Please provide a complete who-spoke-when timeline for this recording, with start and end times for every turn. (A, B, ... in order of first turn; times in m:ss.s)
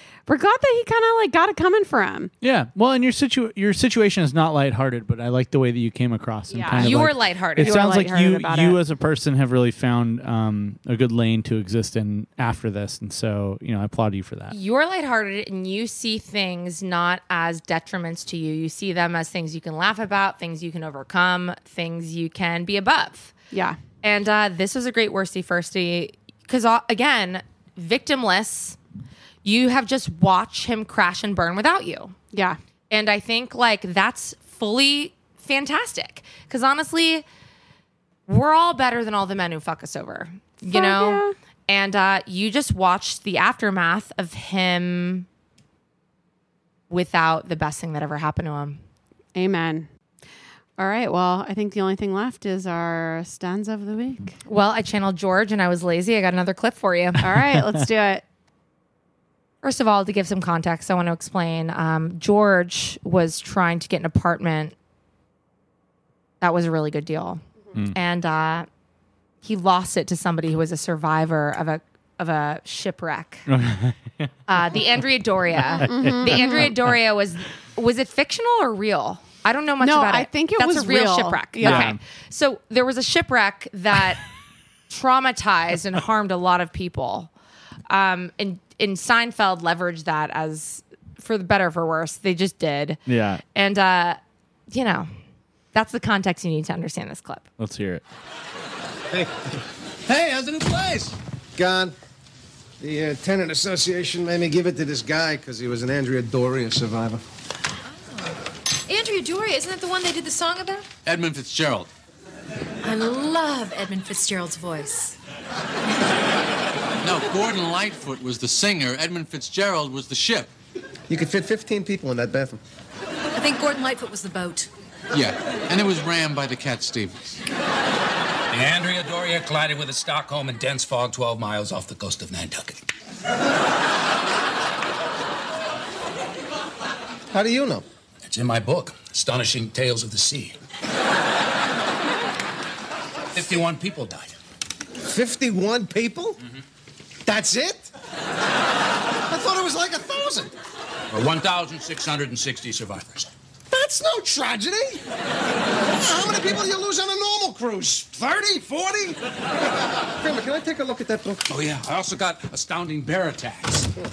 0:00.3-0:02.3 A
0:02.4-0:14.5 B
0:06.5-0:07.1 A
0:06.8-0:07.9 C
0:07.6-0:08.8 A
0:14.5-0:23.3 C
0:23.5-0:23.8 A
0:24.0-0:28.8 C
0:29.4-0:32.2 C
0:32.3-0:32.6 A
0:32.9-0:37.2 C
0:38.3-0:45.2 C
0:40.6-0:41.3 A
0:46.9-0:48.8 C
0:49.3-0:49.9 A
0:50.8-0:54.4 A
0:54.4-0:57.2 C
0:57.2-0:58.2 A
0:57.6-0:57.8 B
0:59.6-1:04.7 C
1:06.4-1:08.7 C
1:09.4-1:13.4 C
1:13.5-1:14.3 B
1:14.5-1:24.2 C
1:15.5-1:16.9 B
1:15.8-1:16.7 A
1:19.8-1:21.9 A
1:21.6-1:22.0 B
1:24.9-1:27.3 C
1:27.9-1:33.0 C
1:33.0-1:33.4 B
1:33.5-1:35.1 C
1:35.7-1:37.5 C
1:37.6-1:38.0 B
1:39.1-1:40.8 D
1:40.3-1:41.1 E
1:41.6-1:41.9 D
1:42.8-1:47.2 D
1:48.0-1:48.4 F
1:48.9-1:50.8 F
1:51.0-1:51.9 G
1:52.8-1:55.2 F
1:57.0-2:00.5 G
2:01.1-2:02.6 D
2:03.3-2:04.7 F
2:05.1-2:07.3 G
2:08.5-2:12.8 E
2:17.3-2:17.8 D
2:18.2-2:20.6 E
2:23.3-2:24.4 E
2:25.0-2:26.4 D
2:27.2-2:27.9 D
2:29.3-2:30.5 D
2:31.1-2:33.3 E
2:33.7-2:35.0 D
2:35.9-2:39.2 D
2:40.1-2:41.4 D
2:41.5-2:43.9 E